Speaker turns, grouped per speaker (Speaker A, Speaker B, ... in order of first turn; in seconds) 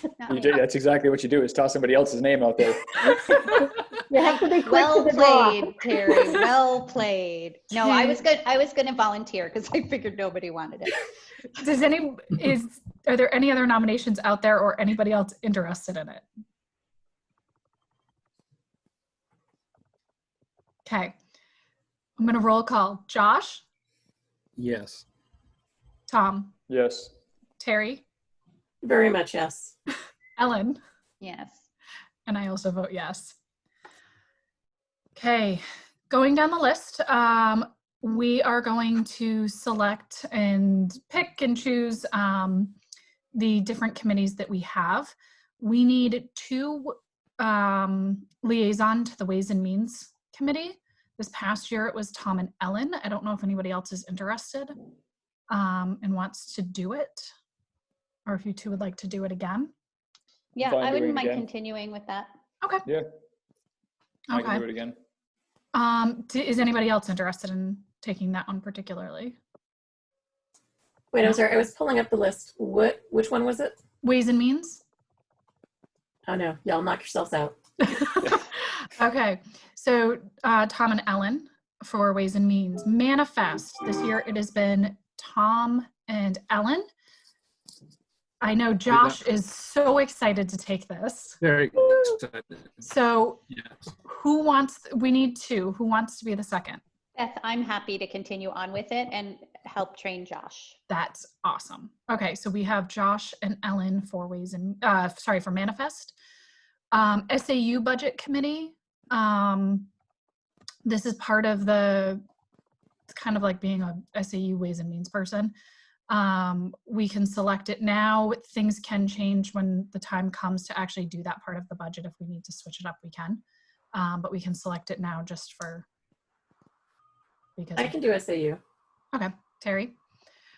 Speaker A: 0.2-0.6, 4.2-11.0, 31.2-31.7, 60.6-62.3, 97.2-100.8
Speaker B: 0.3-3.0, 26.7-27.1, 60.6-61.5, 64.3-65.0
Speaker C: 3.0-5.8
Speaker D: 7.8-8.2, 11.6-16.3, 20.9-21.1, 22.2-23.6, 26.1-26.6, 27.6-28.1, 30.4-30.8, 32.3-33.4, 35.1-42.8, 43.3-54.8, 55.5-57.3, 58.3-59.7, 62.6-62.9, 64.3-64.7, 65.7-69.4, 74.0-74.8, 77.8-86.9, 88.4-91.4, 92.8-93.4, 94.0-96.8, 100.9-106.2, 106.9-109.9, 110.8-112.2, 113.1-115.5, 116.1-123.4, 123.9-125.9, 127.6-128.0, 129.1-130.0
Speaker E: 24.6-25.1, 88.9-89.2, 91.4-92.9, 93.5-93.8
Speaker F: 28.8-29.7, 71.1-73.8, 76.3-77.5, 127.8-128.6